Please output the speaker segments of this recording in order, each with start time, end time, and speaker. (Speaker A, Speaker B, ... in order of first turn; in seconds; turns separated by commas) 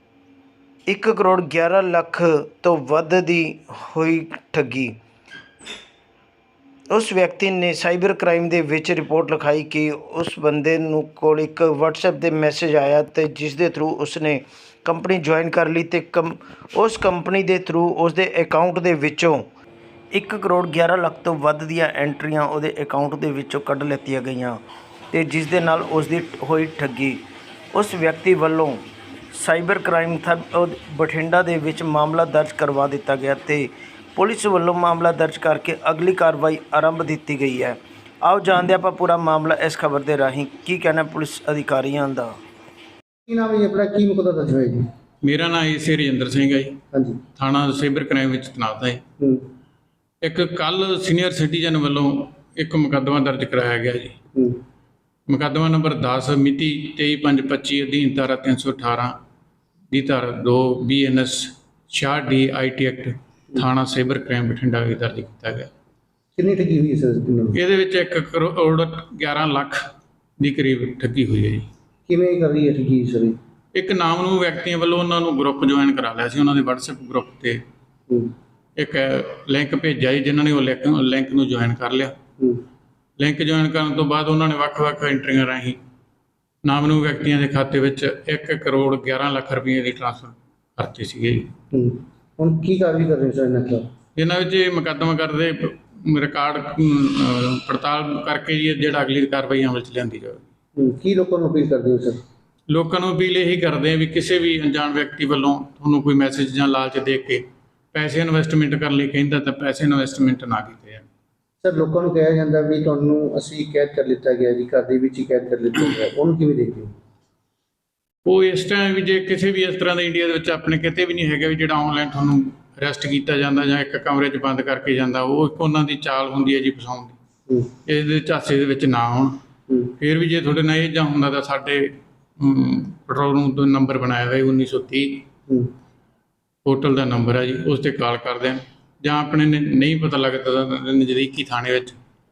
Speaker A: 0.9-5.0, Speaker A: 6.9-19.4, Speaker A: 20.1-24.6, Speaker A: 25.1-27.2, Speaker A: 27.7-42.4, Speaker B: 43.3-44.8, Speaker C: 45.2-46.8, Speaker B: 46.9-47.2, Speaker C: 47.4-49.0, Speaker B: 49.2-49.5, Speaker C: 50.2-54.2, Speaker B: 54.3-54.6, Speaker C: 55.3-59.1, Speaker C: 59.9-65.7, Speaker B: 66.4-67.6, Speaker C: 67.5-69.8, Speaker C: 70.4-71.7, Speaker B: 72.1-73.4, Speaker C: 73.8-77.6, Speaker B: 78.1-78.3, Speaker C: 78.8-82.2, Speaker C: 83.2-85.8, Speaker C: 86.6-91.5, Speaker B: 91.7-93.8, Speaker C: 94.2-100.5, Speaker B: 100.8-102.2, Speaker C: 102.7-111.1, Speaker B: 111.6-116.9, Speaker C: 118.2-127.2, Speaker C: 127.9-129.4, Speaker C: 130.0-135.2, Speaker C: 136.7-142.0